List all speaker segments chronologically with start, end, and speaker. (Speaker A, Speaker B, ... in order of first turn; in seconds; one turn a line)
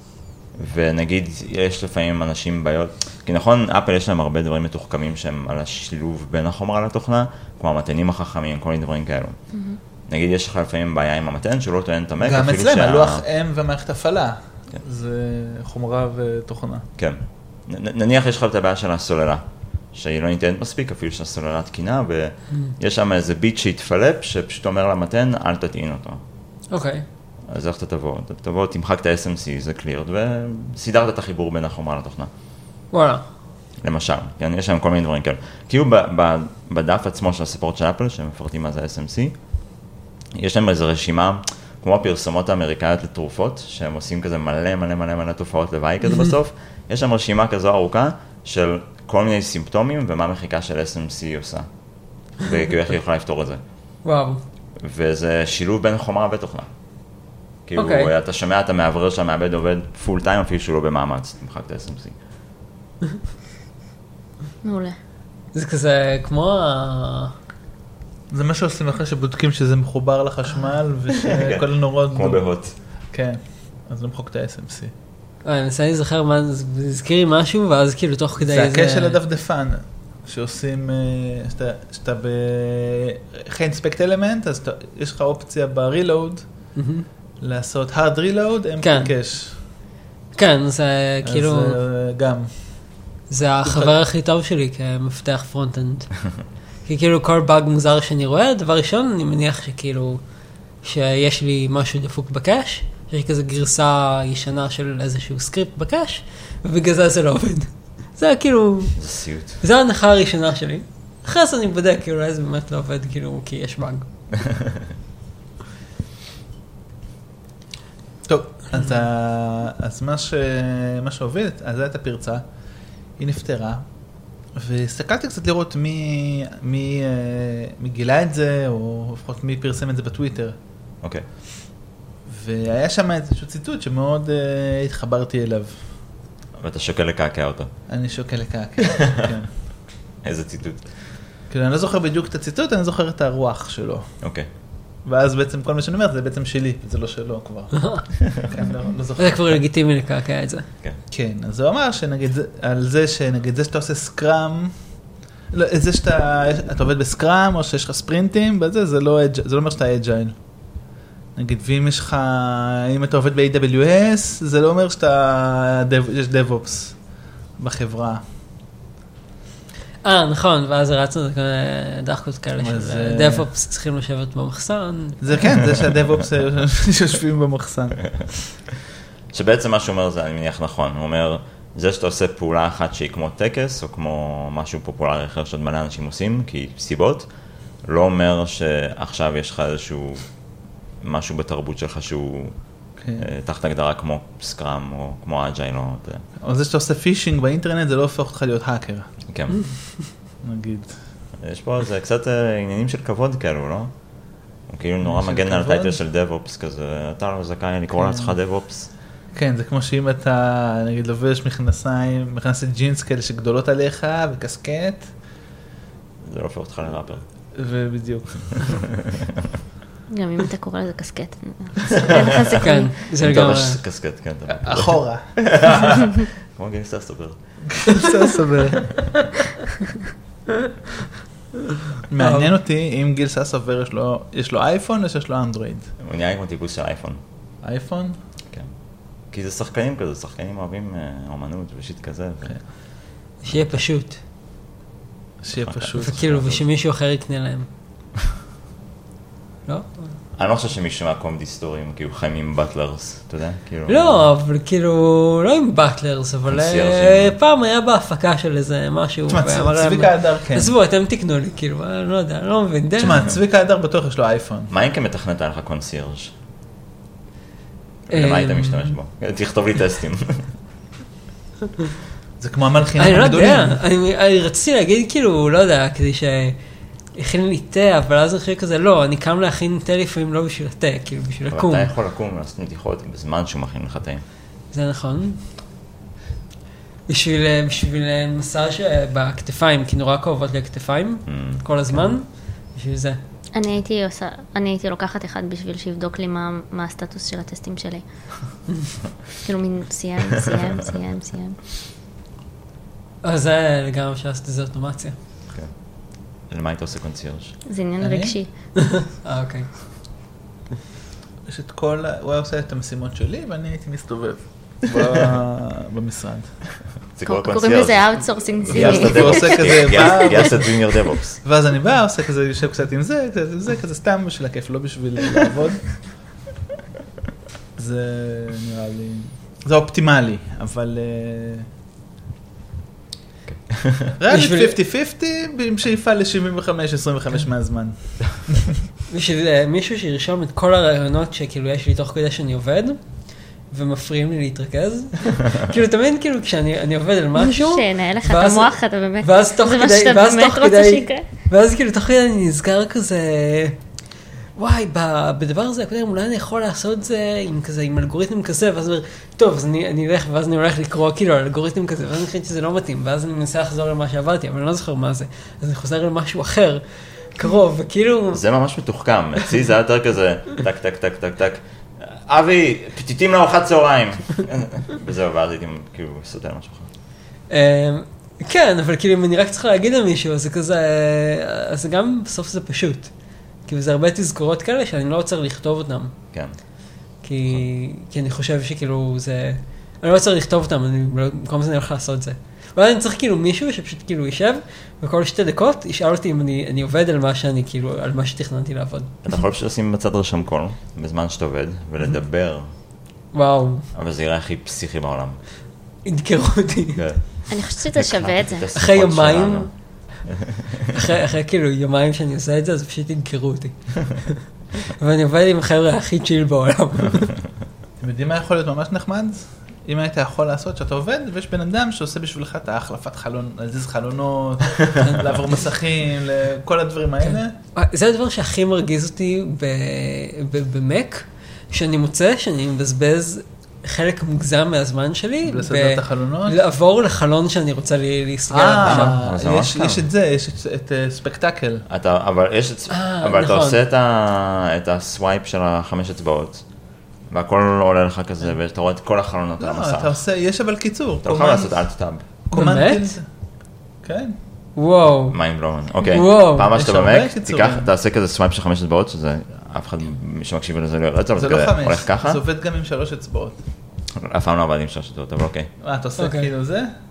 Speaker A: 0.6-13.2
Speaker B: 9.5-9.8
Speaker C: 12.2-16.9
Speaker A: 17.0-26.2
Speaker D: 26.7-27.1
Speaker A: 27.5-32.3
Speaker D: 32.9-33.2
Speaker A: 33.8-39.8
Speaker A: 40.4-53.6
Speaker D: 54.0-54.4
Speaker A: 54.8-56.7
Speaker A: 57.6-62.2
Speaker D: 57.8-58.1
Speaker B: 64.6-65.0
Speaker D: 65.5-67.3
Speaker C: 68.3-74.9
Speaker A: 71.3-72.8
Speaker D: 75.4-79.2
Speaker C: 78.4-86.7
Speaker D: 86.8-87.1
Speaker C: 87.4-89.6
Speaker D: 88.8-89.1
Speaker D: 90.3-91.8
Speaker C: 91.2-92.9
Speaker D: 93.3-100.2
Speaker C: 93.6-94.0
Speaker D: 100.8-114.1
Speaker A: 109.0-109.6
Speaker C: 118.2-122.5
Speaker C: 123.2-123.9
Speaker C: 124.5-130.6
Speaker C: 132.3-135.9
Speaker A: 136.6-137.7
Speaker C: 137.9-139.5
Speaker A: 140.2-140.9
Speaker C: 141.5-144.1
Speaker C: 145.0-149.6
Speaker D: 147.8-148.0
Speaker D: 149.2-150.7
Speaker C: 151.1-154.8
Speaker C: 155.5-160.4
Speaker C: 161.4-168.2
Speaker D: 170.0-175.3
Speaker C: 172.6-173.5
Speaker C: 175.2-178.4
Speaker A: 179.3-190.4
Speaker A: 191.0-196.3
Speaker C: 193.0-193.3
Speaker C: 196.4-199.1
Speaker A: 199.3-199.7
Speaker C: 200.4-201.1
Speaker A: 201.4-208.9
Speaker C: 205.0-206.0
Speaker C: 208.0-208.4
Speaker C: 209.3-215.1
Speaker A: 216.2-217.2
Speaker C: 217.6-218.7
Speaker B: 220.1-222.9
Speaker D: 222.2-223.8
Speaker A: 223.2-227.9
Speaker C: 224.5-225.9
Speaker C: 227.8-229.1
Speaker C: 232.1-235.9
Speaker D: 232.2-232.5
Speaker A: 236.0-237.2
Speaker C: 237.6-238.2
Speaker A: 238.5-242.9
Speaker D: 243.4-244.2
Speaker A: 243.5-243.8
Speaker C: 245.4-246.5
Speaker A: 245.6-246.6
Speaker D: 246.0-247.7
Speaker D: 249.7-250.2
Speaker A: 250.3-254.3
Speaker D: 253.9-263.3
Speaker A: 256.5-257.4
Speaker C: 259.3-260.8
Speaker C: 263.0-264.7
Speaker A: 264.7-266.3
Speaker A: 268.1-270.5
Speaker D: 268.1-268.9
Speaker C: 272.4-273.8
Speaker D: 273.0-276.6
Speaker D: 277.1-281.9
Speaker A: 281.5-284.2
Speaker D: 284.7-285.4
Speaker D: 287.1-293.2
Speaker A: 291.3-292.1
Speaker B: 293.5-298.0
Speaker B: 299.4-301.6
Speaker D: 303.2-305.1
Speaker A: 305.5-307.6
Speaker B: 307.7-308.5
Speaker C: 308.0-308.4
Speaker D: 308.8-309.7
Speaker C: 311.5-316.6
Speaker A: 317.1-321.4
Speaker B: 317.2-320.5
Speaker C: 318.7-320.9
Speaker C: 321.4-326.1
Speaker C: 327.8-331.7
Speaker A: 333.5-334.1
Speaker C: 334.2-338.7
Speaker D: 334.3-334.8
Speaker D: 339.1-353.8
Speaker B: 347.4-351.2
Speaker D: 354.6-368.4
Speaker A: 368.3-376.9
Speaker D: 377.5-383.1
Speaker D: 383.6-386.1
Speaker D: 387.2-399.2
Speaker A: 399.2-402.7
Speaker D: 403.3-403.9
Speaker A: 403.9-405.4
Speaker D: 406.1-407.1
Speaker A: 406.9-410.3
Speaker B: 407.5-408.7
Speaker D: 408.8-409.9
Speaker D: 410.9-417.4
Speaker C: 418.0-427.5
Speaker D: 427.2-439.1
Speaker C: 435.4-436.6
Speaker C: 438.5-441.9
Speaker A: 438.8-440.0
Speaker A: 441.9-450.1
Speaker D: 442.9-443.8
Speaker C: 449.6-453.3
Speaker A: 451.2-452.3
Speaker D: 452.5-453.2
Speaker C: 454.0-454.4
Speaker D: 454.8-456.7
Speaker A: 455.3-462.4
Speaker C: 456.7-457.9
Speaker C: 461.4-463.6
Speaker A: 464.2-465.7
Speaker C: 465.8-466.9
Speaker D: 466.2-466.5